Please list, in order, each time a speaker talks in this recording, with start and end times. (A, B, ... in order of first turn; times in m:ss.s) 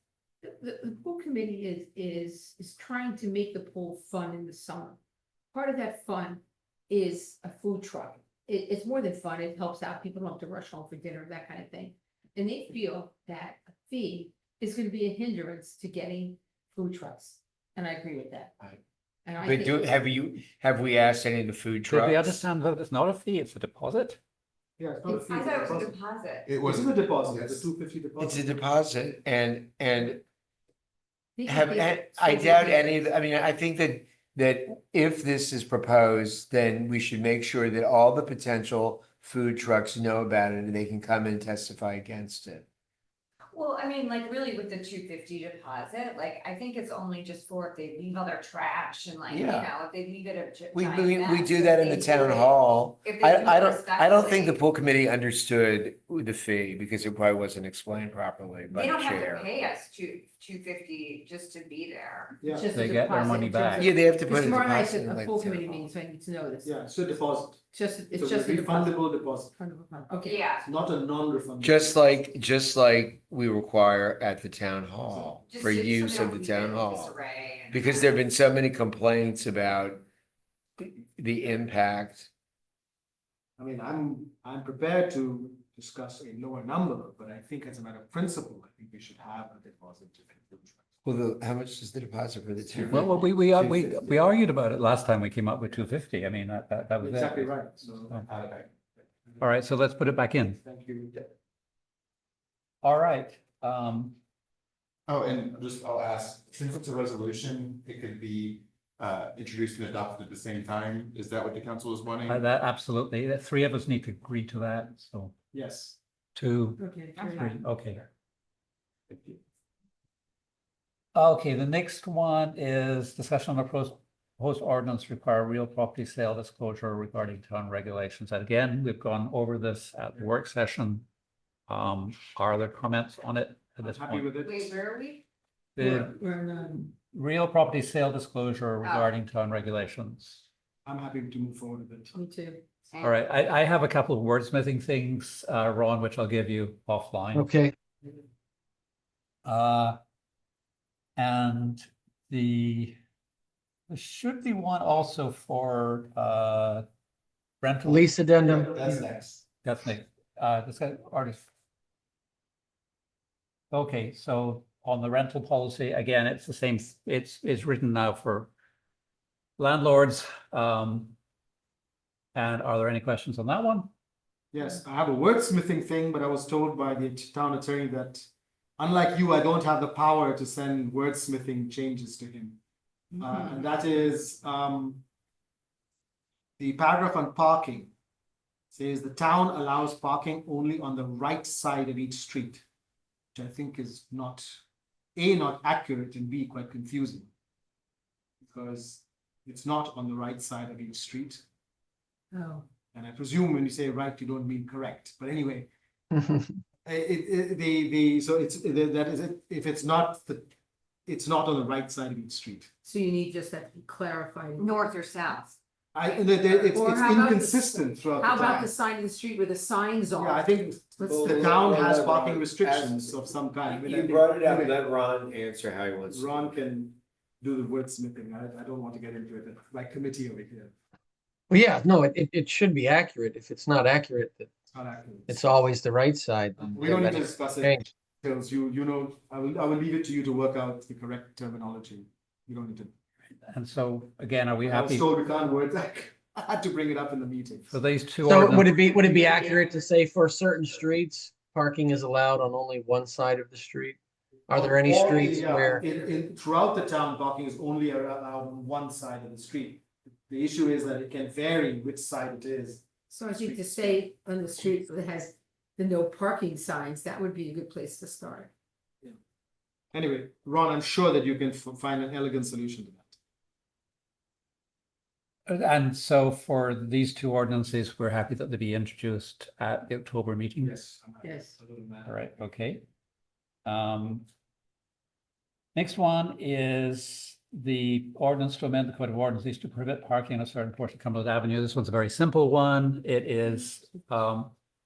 0:00.4-0:05.0 A
0:05.5-0:18.5 A
0:19.2-0:19.9 A
0:19.4-0:22.4 B
0:21.9-0:24.2 C
0:24.8-0:26.0 D
0:25.0-0:26.5 E
0:26.4-0:27.6 F
0:26.6-0:28.5 D
0:28.2-0:30.2 B
0:31.4-0:33.0 A
0:31.5-0:42.6 B
0:43.5-0:54.6 E
0:49.3-0:49.7 B
0:50.7-0:59.5 B
0:58.7-1:02.4 E
1:02.4-1:02.7 D
1:02.5-1:06.7 A
1:02.7-1:03.9 C
1:03.8-1:05.9 B
1:06.6-1:07.6 D
1:07.7-1:10.4 A
1:08.1-1:09.5 D
1:10.2-1:10.7 E
1:10.6-1:12.0 D
1:11.6-1:17.2 B
1:15.1-1:15.4 D
1:15.5-1:18.2 E
1:17.7-1:20.0 B
1:20.8-1:22.3 B
1:23.6-1:30.8 D
1:31.0-1:34.0 B
1:32.8-1:38.2 C
1:37.0-1:38.2 D
1:38.2-1:38.7 F
1:39.4-1:40.6 C
1:40.6-1:41.2 D
1:42.8-1:44.2 C
1:45.1-1:52.5 F
1:52.2-1:55.3 C
1:55.5-1:56.0 D
1:56.4-1:58.0 C
1:56.8-1:57.5 A
1:57.2-1:57.5 E
1:59.1-1:59.4 D
2:01.1-2:11.1 C
2:11.7-2:14.3 C
2:13.8-2:14.8 D
2:14.4-2:15.2 E
2:15.8-2:16.2 C
2:15.8-2:16.9 A
2:16.9-2:20.5 C
2:18.8-2:19.1 E
2:20.8-2:22.1 D
2:22.1-2:22.6 A
2:22.9-2:23.2 E
2:23.0-2:27.6 C
2:27.3-2:27.7 G
2:29.4-2:30.0 C
2:31.2-2:33.0 C
2:33.9-2:36.8 C
2:37.6-2:38.1 C
2:37.8-2:39.1 G
2:38.6-2:39.4 B
2:39.6-2:41.5 C
2:43.7-2:48.5 C
2:49.6-2:51.2 C
2:52.3-2:53.9 C
2:54.5-3:02.6 D
3:03.2-3:05.0 D
3:06.6-3:07.9 D
3:08.7-3:12.6 D
3:13.3-3:14.6 D
3:15.2-3:17.3 D
3:18.4-3:21.4 D
3:22.3-3:22.7 A
3:22.9-3:25.7 D
3:26.1-3:26.4 G
3:26.8-3:30.5 D
3:31.1-3:32.7 D
3:32.8-3:34.7 A
3:34.6-3:35.6 E
3:35.9-3:38.7 D
3:36.7-3:40.4 A
3:40.2-3:44.8 D
3:41.0-3:41.5 A
3:41.0-3:46.4 B
3:46.1-3:50.7 D
3:51.5-3:54.5 G
3:54.7-3:55.6 D
3:55.3-3:57.8 G
3:56.7-4:02.9 D
4:03.4-4:05.1 C
4:04.6-4:07.8 D
4:07.7-4:08.8 C
4:08.2-4:14.0 G
4:08.8-4:09.8 A
4:14.5-4:15.8 G
4:14.5-4:24.0 D
4:23.1-4:28.5 A
4:29.9-4:33.2 D
4:35.5-4:40.8 C
4:40.6-4:42.2 D
4:41.2-4:41.6 A
4:42.1-4:42.8 C
4:43.7-4:44.3 C
4:45.8-4:54.5 C